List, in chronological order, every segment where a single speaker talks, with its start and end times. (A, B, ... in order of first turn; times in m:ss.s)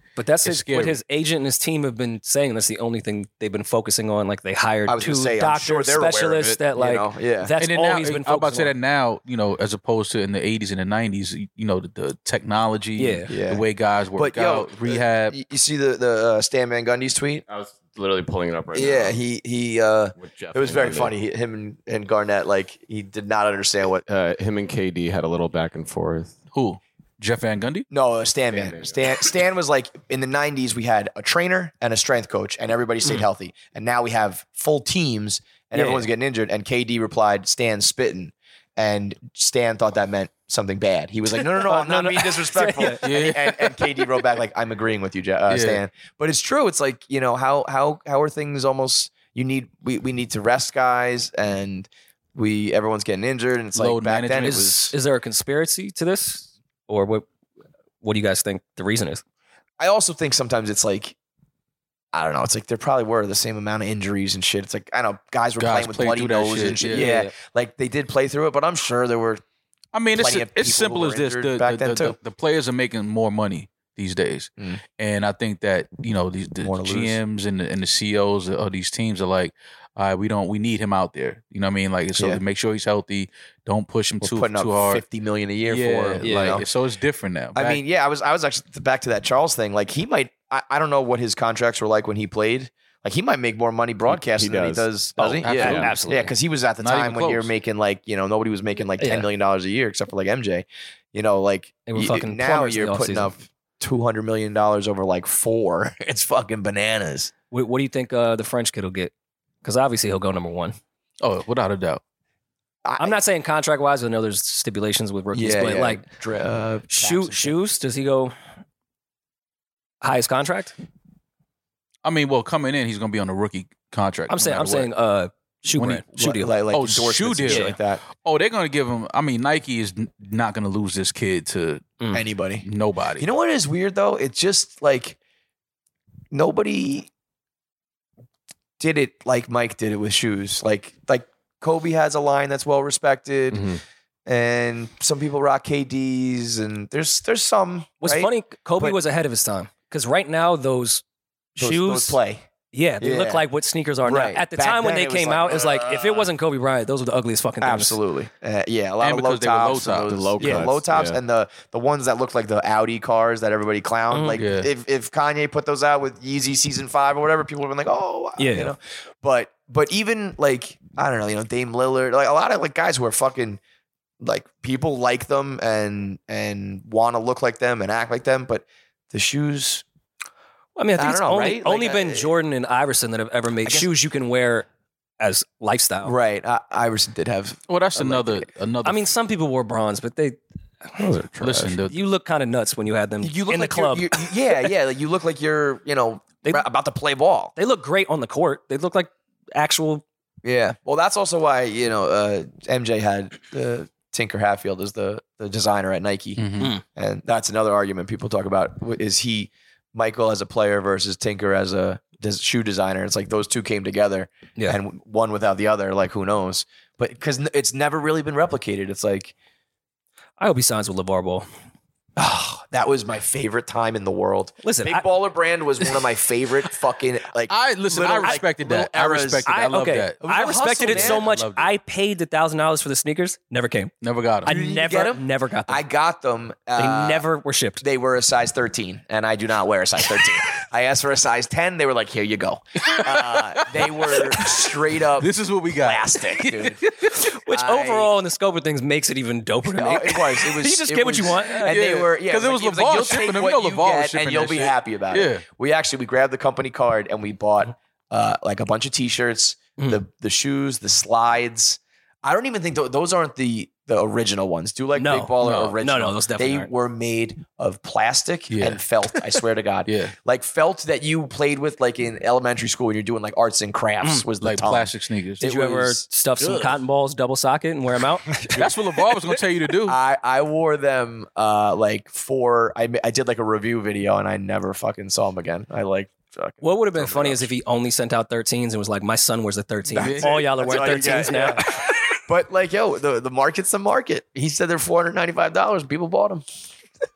0:00.2-0:08.7 A
0:00.4-0:01.0 B
0:04.9-0:07.5 C
0:07.6-0:15.4 B
0:13.0-0:13.3 A
0:13.3-0:17.4 C
0:17.5-0:19.2 D
0:18.7-0:24.1 C
0:20.2-0:21.1 D
0:24.1-0:26.4 D
0:26.5-0:27.9 B
0:27.9-0:54.9 C
0:28.5-0:28.9 D
0:35.7-0:36.1 A
0:41.4-0:43.0 A
0:43.0-0:43.6 B
0:45.5-0:45.8 B
0:53.8-0:54.9 B
0:54.9-0:57.2 A
0:58.0-0:59.2 A
0:59.8-1:01.2 C
1:02.1-1:09.4 C
1:05.6-1:07.1 B
1:06.8-1:07.3 A
1:09.9-1:25.0 B
1:10.2-1:12.2 C
1:16.6-1:17.2 C
1:24.2-1:26.6 C
1:25.6-1:27.8 B
1:26.2-1:26.6 A
1:27.6-1:47.3 C
1:34.1-1:35.9 D
1:35.4-1:36.0 B
1:35.5-1:36.3 A
1:36.8-1:37.5 B
1:39.0-1:39.3 A
1:41.9-1:43.3 A
1:47.5-1:49.1 A
1:49.6-1:50.8 A
1:51.2-1:52.0 B
1:52.8-1:53.2 C
1:53.0-1:56.0 A
1:55.3-1:57.6 C
1:56.9-1:58.4 A
2:00.0-2:00.7 A
2:02.0-2:04.9 B
2:04.3-2:06.5 A
2:05.8-2:06.0 B
2:06.2-2:08.0 C
2:06.7-2:11.9 B
2:07.5-2:07.8 A
2:12.1-2:12.7 C
2:12.6-2:13.3 B
2:13.2-2:15.2 C
2:16.3-2:17.1 C
2:18.8-2:29.0 C
2:23.5-2:23.8 D
2:28.0-2:31.0 A
2:31.6-2:32.5 C
2:31.6-2:32.2 A
2:32.7-2:38.0 A
2:33.0-2:33.5 C
2:34.0-2:36.3 C
2:37.6-2:53.6 C
2:39.0-2:40.2 B
2:40.1-2:41.2 D
2:44.1-2:44.4 A
2:44.3-2:44.7 B
2:48.4-2:48.7 A
2:54.2-2:59.8 C
3:00.8-3:04.7 A
3:01.0-3:02.3 C
3:03.6-3:03.9 C
3:05.2-3:06.2 A
3:06.0-3:08.5 C
3:07.7-3:09.1 B
3:08.8-3:11.2 A
3:11.0-3:11.7 D
3:11.4-3:12.0 B
3:11.8-3:14.3 A
3:13.2-3:17.5 C
3:17.6-3:20.0 A
3:20.4-3:39.3 C
3:26.4-3:26.7 B
3:40.4-3:41.5 A
3:42.2-3:49.5 C
3:44.6-3:45.1 A
3:47.5-3:50.2 B
3:49.5-3:53.9 A
3:50.2-3:51.3 C
3:50.8-3:51.7 B
3:54.0-3:54.5 B
3:54.4-3:55.8 A
3:54.5-3:57.2 C
3:56.8-3:57.8 A
3:57.8-4:06.8 C
4:02.9-4:04.6 B
4:05.2-4:07.2 B
4:07.2-4:11.8 A
4:07.5-4:08.1 C
4:09.7-4:36.0 C
4:11.5-4:15.4 B
4:25.0-4:26.7 A
4:25.4-4:25.8 B
4:28.5-4:28.8 B
4:29.9-4:30.1 B
4:34.4-4:35.5 B
4:35.4-4:38.4 A
4:36.4-4:36.7 B
4:38.5-4:40.0 B
4:39.9-4:47.5 C
4:46.6-4:51.6 A
4:49.9-4:56.4 C
4:50.0-4:51.3 B